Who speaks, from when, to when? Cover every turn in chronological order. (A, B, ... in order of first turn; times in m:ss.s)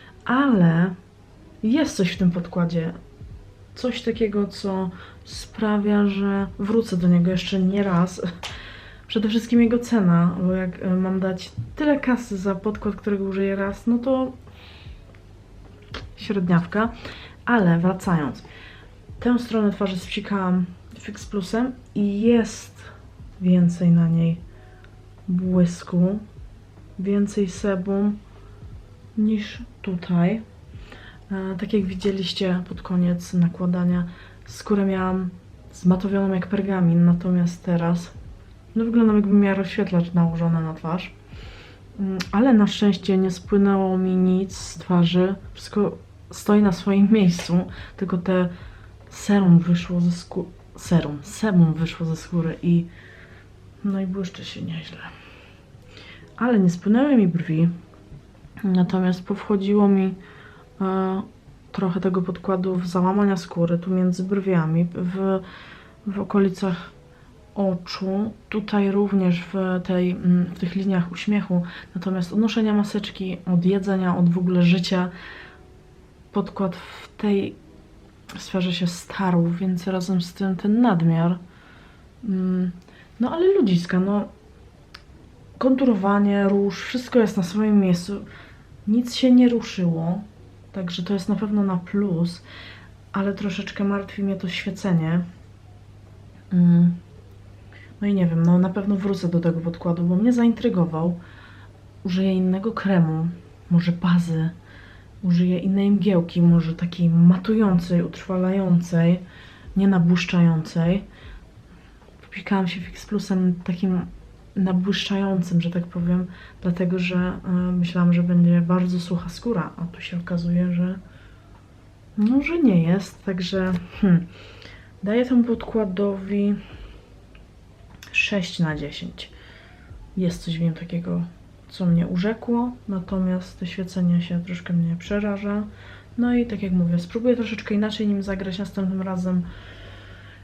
0:00.2-0:01.0 A
0:01.6-0:03.0 A
0:03.8-0:08.3 A
0:09.1-0:14.4 A
0:16.1-0:16.9 A
0:17.4-0:18.5 A
0:19.2-0:24.4 A
0:25.2-0:26.2 A
0:27.0-0:28.2 A
0:29.1-0:30.4 A
0:31.3-0:38.1 A
0:38.7-0:41.1 A
0:42.0-0:48.5 A
0:49.1-0:52.9 A
0:53.8-0:55.1 A
0:56.4-0:57.7 A
0:58.6-1:00.2 A
1:00.8-1:05.5 A
1:06.0-1:06.9 A
1:07.6-1:15.1 A
1:16.3-1:17.6 A
1:18.3-1:21.4 A
1:22.2-1:24.3 A
1:25.6-1:28.2 A
1:28.9-1:32.4 A
1:33.1-1:35.2 A
1:36.5-1:37.0 A
1:38.0-1:41.2 A
1:42.0-1:44.6 A
1:45.2-1:49.2 A
1:49.8-1:51.1 A
1:52.2-2:01.0 A
2:02.2-2:04.3 A
2:05.0-2:06.6 A
2:08.1-2:09.3 A
2:10.1-2:19.5 A